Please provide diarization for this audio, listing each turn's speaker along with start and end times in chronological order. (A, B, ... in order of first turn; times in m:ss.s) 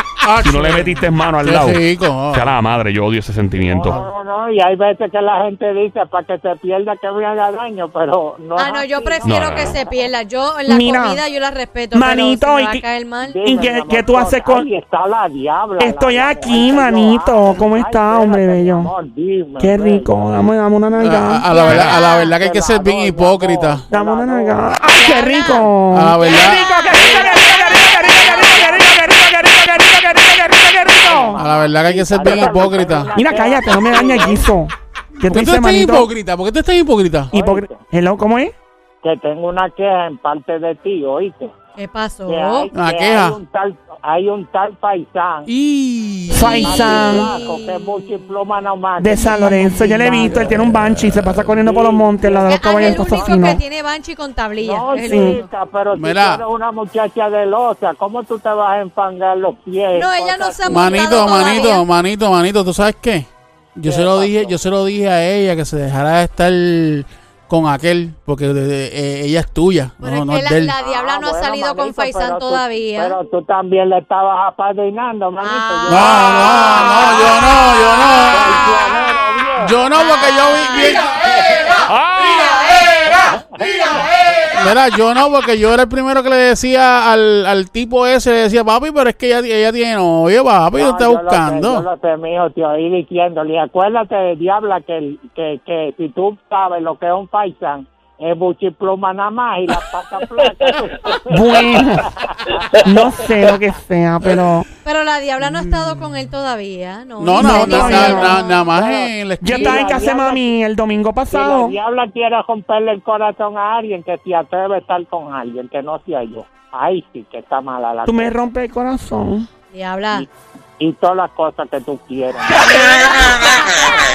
0:00.2-0:02.6 A
0:00.4-0:04.0 B
0:03.5-0:10.1 C
0:08.6-0:13.4 D
0:09.2-0:09.8 B
0:10.7-0:11.2 E
0:11.9-0:12.8 E
0:13.2-0:20.5 C
0:13.4-0:14.7 E
0:15.8-0:18.9 E
0:19.6-0:21.5 E
0:21.0-0:23.8 A
0:21.5-0:22.3 D
0:21.7-0:25.1 C
0:23.9-0:31.4 E
0:24.9-0:25.7 D
0:25.9-0:26.7 A
0:26.2-0:28.6 D
0:26.9-0:29.0 C
0:30.9-0:34.5 C
0:31.4-0:33.1 A
0:33.1-0:36.1 E
0:35.3-0:37.3 A
0:37.3-0:37.8 C
0:37.3-0:38.5 E
0:39.0-0:41.5 C
0:41.8-0:42.7 D
0:42.3-0:45.5 C
0:42.7-0:43.4 A
0:45.4-0:46.5 A
0:46.3-0:47.3 E
0:46.3-0:48.2 D
0:46.4-0:50.5 C
0:49.0-0:53.6 E
0:49.4-0:51.4 A
0:51.5-0:53.6 C
0:52.5-0:55.5 D
0:54.6-1:01.7 C
0:55.1-0:55.4 E
0:55.9-0:56.4 A
0:59.9-1:01.8 D
1:00.7-1:10.7 A
1:03.8-1:04.6 C
1:10.0-1:13.2 D
1:10.8-1:19.9 C
1:15.4-1:17.6 D
1:15.9-1:18.6 A
1:19.6-1:21.0 A
1:19.9-1:21.0 D
1:20.6-1:21.9 C
1:21.8-1:22.6 B
1:22.2-1:22.8 D
1:22.8-1:24.5 C
1:24.6-1:31.8 A
1:30.7-1:43.3 C
1:41.2-1:42.1 E
1:42.8-1:44.6 E
1:44.8-1:48.8 D
1:45.4-1:46.1 A
1:47.2-1:50.0 A
1:47.4-1:48.3 E
1:47.4-1:50.5 C
1:49.4-1:51.8 E
1:51.3-1:58.4 C
1:58.0-1:59.5 E
1:59.7-2:00.2 D
2:00.8-2:03.0 C
2:02.6-2:03.9 D